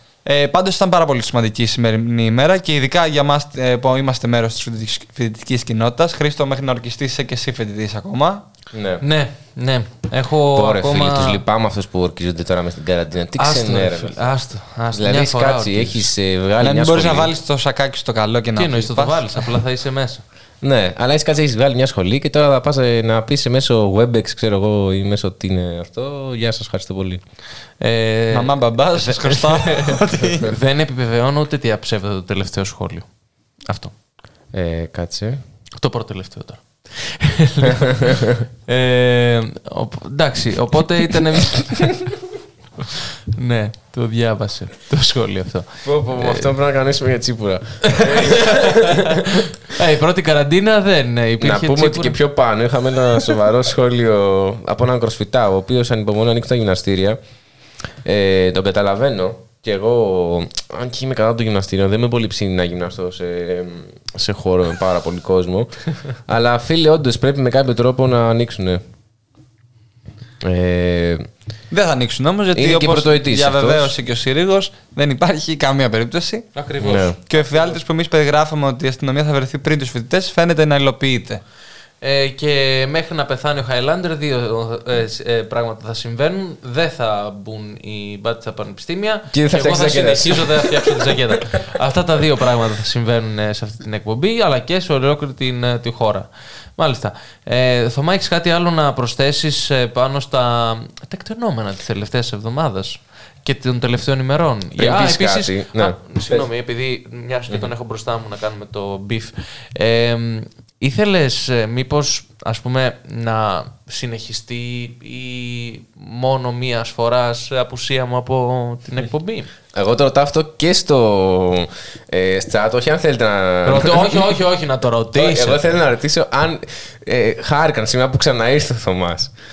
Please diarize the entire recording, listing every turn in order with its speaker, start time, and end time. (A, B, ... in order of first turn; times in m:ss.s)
0:00.3-0:08.4 A
0:08.7-0:09.0 B
0:09.0-0:11.4 C
0:10.5-0:14.3 B
0:13.4-0:16.1 C
0:14.9-0:17.3 B
0:16.6-0:19.4 A
0:18.6-0:20.2 C
0:20.6-0:27.2 B
0:27.8-0:29.8 C
0:28.3-0:30.5 A
0:30.5-0:33.1 C
0:33.7-0:33.9 C
0:34.5-0:35.4 B
0:35.8-0:37.8 C
0:38.7-0:41.9 C
0:43.4-0:46.5 C
0:45.8-0:49.1 B
0:48.0-0:49.2 C
0:49.8-0:52.2 C
0:51.4-0:57.2 B
0:58.0-1:08.8 B
1:10.4-1:11.3 B
1:11.7-1:16.5 A
1:12.6-1:13.9 B
1:16.5-1:17.8 C
1:16.8-1:17.2 B
1:17.3-1:21.4 A
1:22.0-1:59.5 C
1:29.3-1:31.3 B
1:44.8-1:46.5 B
1:59.7-2:04.3 B
2:03.6-2:05.8 C
2:05.2-2:09.3 B